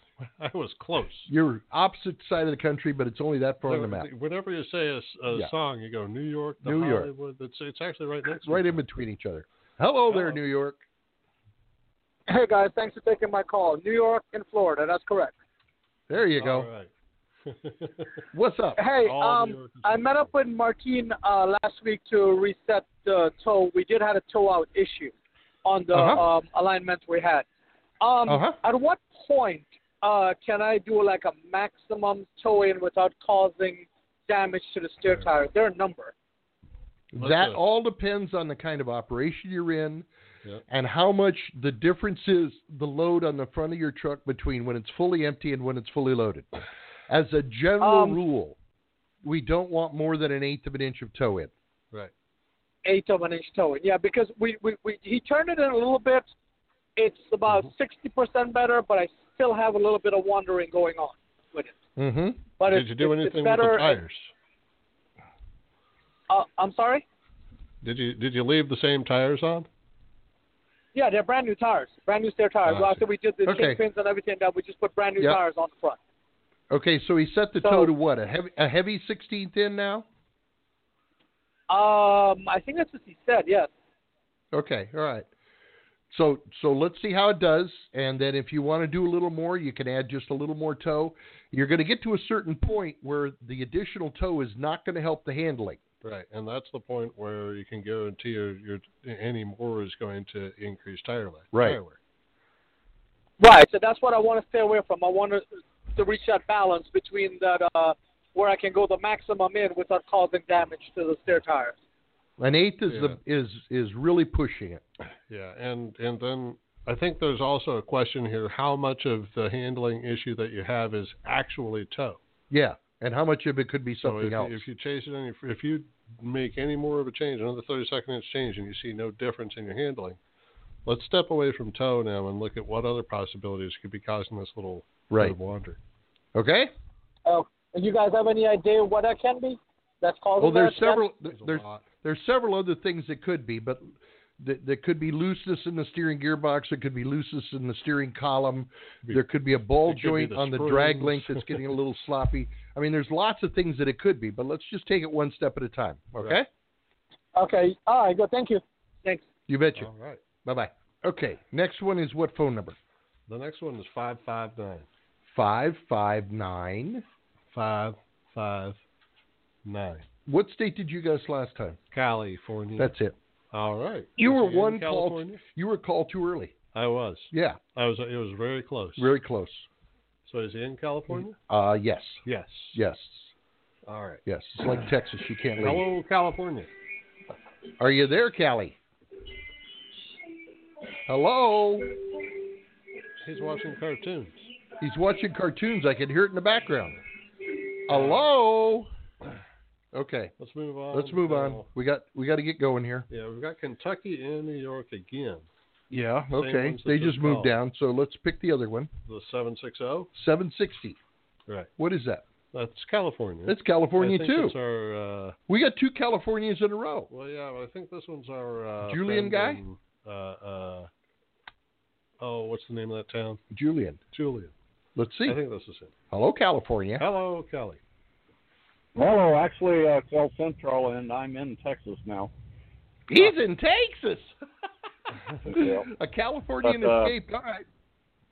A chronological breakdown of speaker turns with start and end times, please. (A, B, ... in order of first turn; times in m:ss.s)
0:00.2-0:01.3 A
0:01.3-0:04.1 B
0:03.7-0:08.8 A
0:06.6-0:07.1 B
0:08.4-0:10.8 B
0:10.1-0:10.4 A
0:12.3-0:15.3 C
0:16.1-0:16.7 B
0:16.4-0:16.9 A
0:17.5-0:18.2 A
0:18.3-0:18.8 B
0:18.8-0:25.1 C
0:19.0-0:20.3 A
0:25.6-0:27.4 C
0:25.9-0:26.2 B
0:28.0-0:36.1 C
0:28.3-0:28.6 B
0:37.1-0:40.1 B
0:37.2-0:37.6 A
0:40.7-0:46.5 B
0:47.1-0:48.6 B
0:47.8-0:48.2 C
0:49.2-0:51.5 B
0:52.8-0:56.3 C
0:57.0-1:01.8 C
1:02.0-1:02.5 B
1:02.6-1:04.0 C
1:02.7-1:04.3 A
1:06.3-1:07.0 C
1:07.8-1:09.7 A
1:10.9-1:16.0 C
1:12.7-1:13.0 A
1:13.4-1:13.8 B
1:16.7-1:20.1 B
1:17.6-1:17.9 C
1:21.7-1:23.7 C
1:24.5-1:25.3 B
1:26.1-1:35.8 B
1:36.0-1:42.0 A
1:41.5-1:41.8 B
1:43.4-1:51.8 C
1:52.4-1:54.8 B
1:52.9-1:53.2 A
1:55.3-2:02.2 A
2:02.5-2:04.7 B
2:04.0-2:10.2 A
2:10.8-2:15.8 A
2:15.1-2:15.4 B
2:16.4-2:16.7 B
2:17.3-2:21.0 C
2:20.4-2:36.5 B
2:21.3-2:21.8 A
2:29.8-2:31.6 A
2:37.4-2:39.2 C
2:39.5-2:39.9 B
2:39.8-2:40.2 A
2:40.4-2:42.8 B
2:43.3-2:44.9 A
2:45.3-2:47.0 B
2:47.5-2:48.8 A
2:49.6-2:50.0 A
2:50.3-2:51.8 B
2:51.9-2:52.9 A
2:52.8-2:53.2 B
2:53.5-2:55.4 A
2:54.2-2:56.6 B
2:56.7-2:59.1 A
2:57.3-2:57.6 B
2:59.0-2:59.7 B
3:00.3-3:01.4 A
3:01.1-3:03.3 B
3:02.2-3:02.8 A
3:03.9-3:04.2 A
3:04.3-3:05.8 B
3:05.6-3:06.7 A
3:07.8-3:08.8 B
3:11.1-3:12.2 B
3:13.2-3:14.4 A
3:14.8-3:17.0 B
3:17.9-3:18.9 B
3:17.9-3:18.3 A
3:19.9-3:20.4 B
3:20.4-3:21.7 A
3:20.9-3:23.1 B
3:23.1-3:25.5 A
3:25.9-3:28.9 B
3:26.3-3:27.5 A
3:29.1-3:30.1 A
3:30.2-3:31.0 B
3:31.8-3:32.2 B
3:32.5-3:35.4 A
3:33.5-3:34.6 B
3:35.5-3:37.1 B
3:37.1-3:40.9 A
3:38.8-3:39.6 B
3:42.2-3:43.4 A
3:43.5-3:44.0 B
3:44.1-3:44.5 A
3:45.0-3:45.4 B
3:45.2-3:45.9 A
3:46.1-3:47.1 B
3:47.0-3:47.8 A
3:49.0-3:52.3 D
3:53.1-3:54.4 B
3:55.4-3:57.7 B
3:55.5-3:55.9 D
3:56.6-3:57.1 D